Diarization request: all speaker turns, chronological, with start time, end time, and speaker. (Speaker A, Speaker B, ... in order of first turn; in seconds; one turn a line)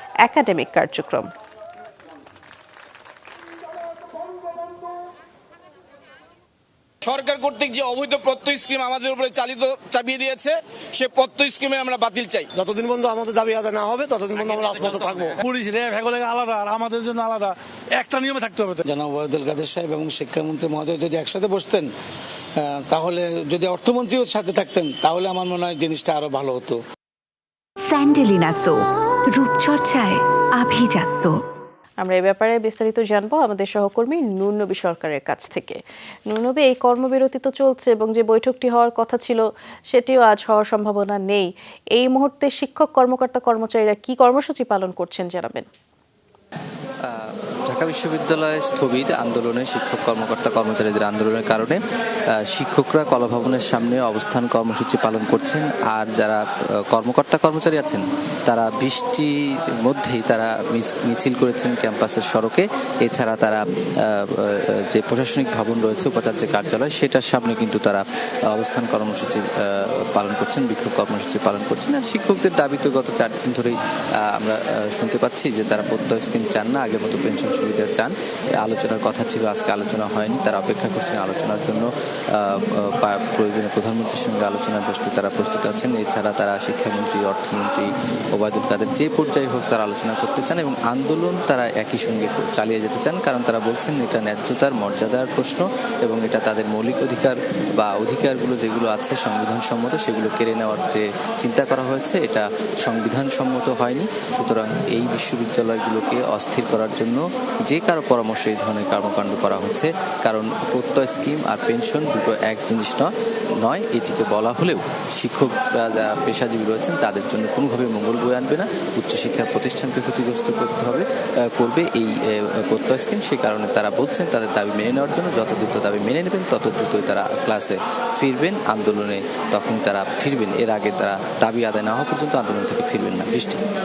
Speaker A: 0.2-1.3
Speaker B: 7.0-12.5
Speaker C: 12.5-15.4
Speaker D: 15.4-18.8
Speaker E: 18.9-21.9
Speaker E: 22.6-26.8
Speaker F: 27.8-31.4
Speaker A: 32.0-45.7
Speaker G: 47.0-51.8
Speaker G: 52.3-113.1
Speaker G: 113.6-133.6